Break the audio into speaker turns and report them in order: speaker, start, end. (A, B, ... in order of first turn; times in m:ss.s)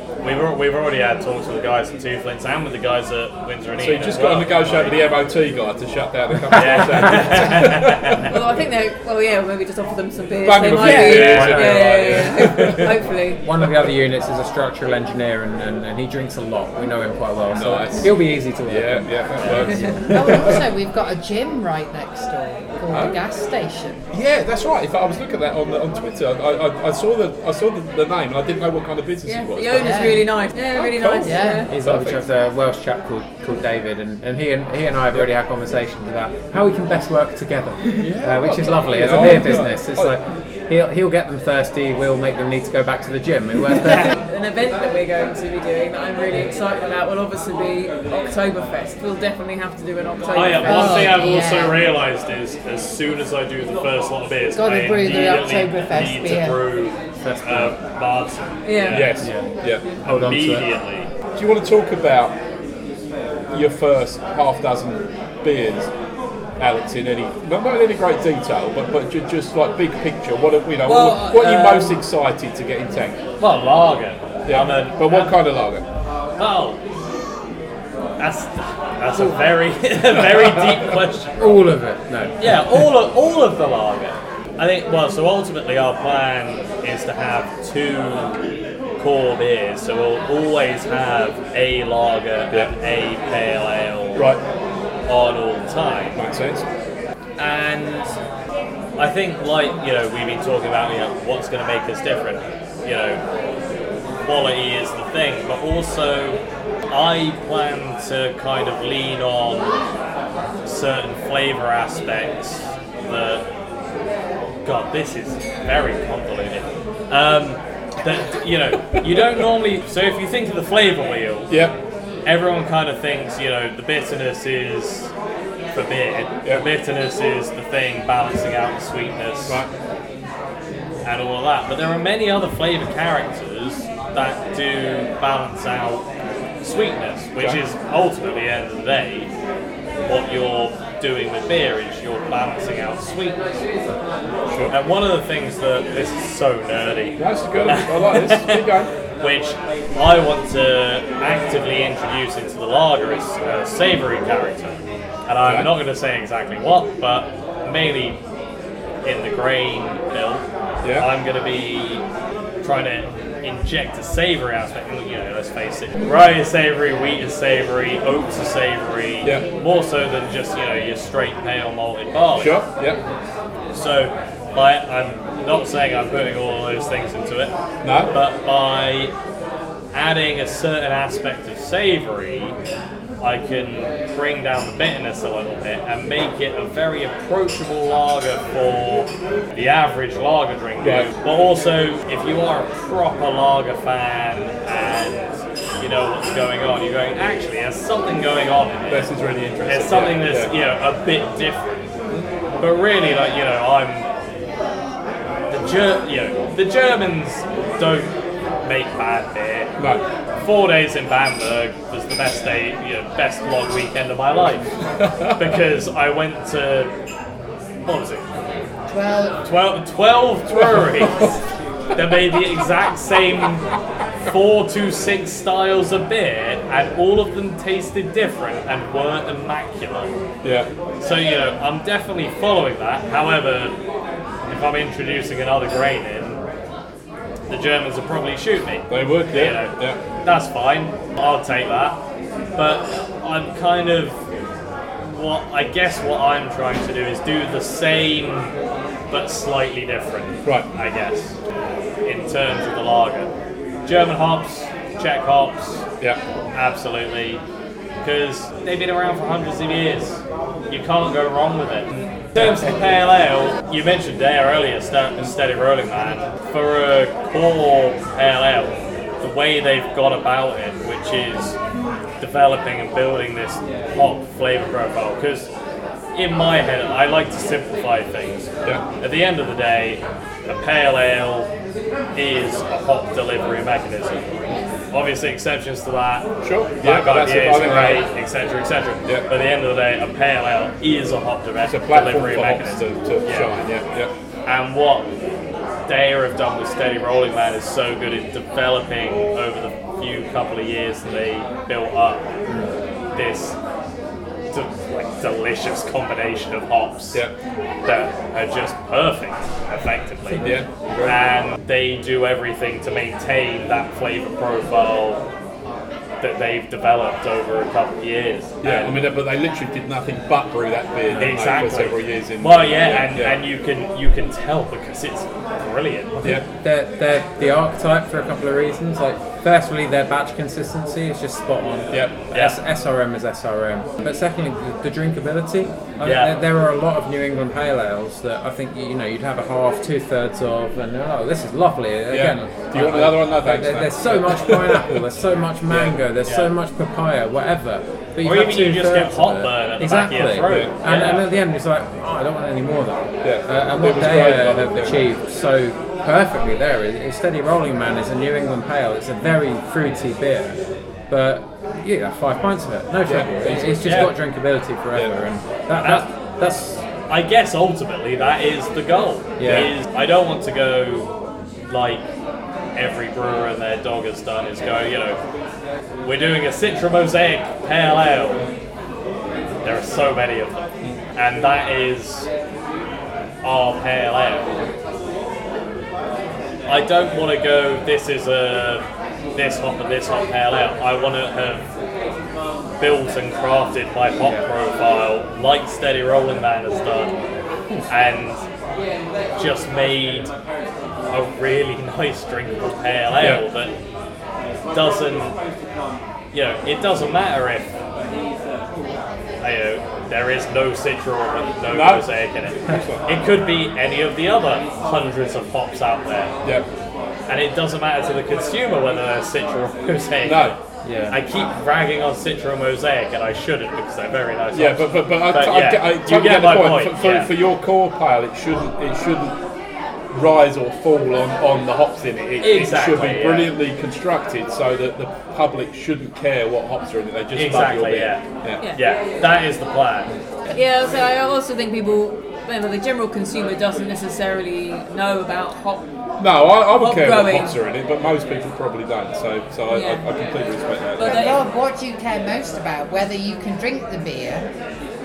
0:00.2-0:05.0 A
0:03.8-0:08.3 B
0:06.5-0:08.3 A
0:08.2-0:13.4 C
0:10.4-0:12.9 B
0:10.8-0:12.8 D
0:10.9-0:11.7 A
0:13.4-0:20.6 D
0:17.5-0:20.6 B
0:19.9-0:24.1 E
0:22.9-0:23.2 B
0:24.1-0:30.2 B
0:29.2-0:31.7 C
0:29.8-0:30.2 E
0:30.8-0:32.2 B
0:31.2-0:31.7 E
0:31.7-0:44.1 D
0:38.0-0:40.2 B
0:44.0-0:51.3 C
0:50.3-0:59.2 A
0:50.6-0:51.8 E
0:54.5-0:56.6 E
0:57.2-0:57.7 D
0:58.6-0:59.1 C
0:58.9-0:59.9 B
0:59.2-0:59.5 D
1:00.0-1:00.7 D
1:00.0-1:01.1 A
1:01.4-1:02.4 B
1:03.5-1:05.9 B
1:06.6-1:13.2 B
1:10.8-1:11.9 A
1:13.4-1:15.4 A
1:14.5-1:15.8 B
1:16.4-1:16.8 A
1:18.2-1:21.6 A
1:21.4-1:22.5 D
1:22.4-1:28.4 A
1:29.0-1:34.2 A
1:34.2-1:34.4 B
1:35.1-1:36.2 A
1:36.2-1:36.7 B
1:37.4-1:38.1 A
1:39.0-1:43.2 A
1:44.2-1:49.8 A
1:50.6-1:53.5 A
1:54.6-2:01.6 A
2:01.5-2:01.8 B
2:02.2-2:05.1 A
2:05.7-2:09.6 A
2:11.0-2:16.1 A
2:16.6-2:19.3 A
2:20.0-2:23.4 A
2:24.5-2:24.8 B
2:24.7-2:28.6 A
2:27.2-2:28.9 B
2:29.2-2:38.2 A
2:35.4-2:35.7 B
2:39.0-2:40.5 A
2:40.8-2:41.1 B
2:41.0-2:42.0 A
2:42.6-2:52.6 A
2:52.4-2:53.0 B
2:53.7-2:57.5 A
2:57.8-2:58.1 B
2:58.1-2:59.1 A
2:59.9-3:02.6 A
3:03.2-3:21.7 A
3:10.8-3:11.1 B
3:18.9-3:20.5 B
3:22.6-3:24.1 A
3:25.5-3:28.1 A
3:28.6-3:29.7 A
3:29.8-3:30.0 B
3:30.4-3:34.7 A
3:35.0-3:35.4 B
3:35.2-3:36.9 A
3:37.8-3:38.4 A
3:38.9-3:39.4 E
3:39.4-3:41.4 A
3:42.0-3:43.7 A
3:44.2-3:50.2 A
3:50.4-3:50.7 B
3:51.0-3:53.8 A
3:54.5-3:56.4 A
3:57.5-4:02.0 A
3:58.9-4:00.0 B
4:02.6-4:04.2 A
4:05.0-4:08.5 A
4:09.1-4:11.4 A
4:12.0-4:13.3 A
4:13.8-4:15.9 A
4:16.5-4:17.4 A
4:18.0-4:31.6 A
4:32.2-4:35.5 A
4:36.1-4:41.5 A
4:42.1-4:53.5 A
4:46.4-4:48.1 B
4:51.6-4:54.1 B
4:54.5-4:55.1 A
4:55.9-5:02.3 A
5:03.1-5:03.6 A
5:04.5-5:07.2 A
5:07.8-5:15.2 A
5:10.4-5:11.2 B
5:16.2-5:19.0 A
5:18.6-5:23.4 B
5:21.1-5:26.4 A
5:26.2-6:06.8 D
5:31.9-5:32.2 B
5:32.3-5:32.6 A
5:36.0-5:36.3 A
5:42.1-5:45.0 B
5:45.8-5:46.5 A
5:48.2-5:51.3 A
5:50.5-5:50.7 B
5:53.2-5:55.0 B
6:03.1-6:04.1 B
6:03.8-6:04.1 A
6:05.8-6:06.1 A
6:07.1-6:11.1 A
6:09.4-6:09.7 D
6:11.7-6:12.1 A
6:12.8-6:15.2 A
6:16.0-6:18.4 A
6:19.6-6:22.3 A
6:23.4-6:24.5 A
6:26.7-6:31.7 A
6:32.8-6:37.2 A
6:37.9-6:38.4 A
6:39.4-6:40.3 A
6:41.1-6:43.8 A
6:43.2-6:43.4 B
6:44.7-6:45.4 A
6:46.3-6:47.8 A
6:49.4-6:56.3 A
6:51.7-6:52.0 B
6:52.7-6:53.0 B
6:57.3-7:00.6 A
7:00.2-7:00.6 B
7:00.8-7:01.2 D
7:01.1-7:07.3 A
7:04.5-7:09.4 B
7:10.1-7:18.6 B
7:12.4-7:13.5 A
7:17.4-7:20.1 A
7:20.5-7:25.9 C
7:26.2-7:31.2 B
7:26.7-7:27.6 C
7:29.7-7:30.1 C
7:31.0-7:31.4 C
7:31.0-7:34.5 E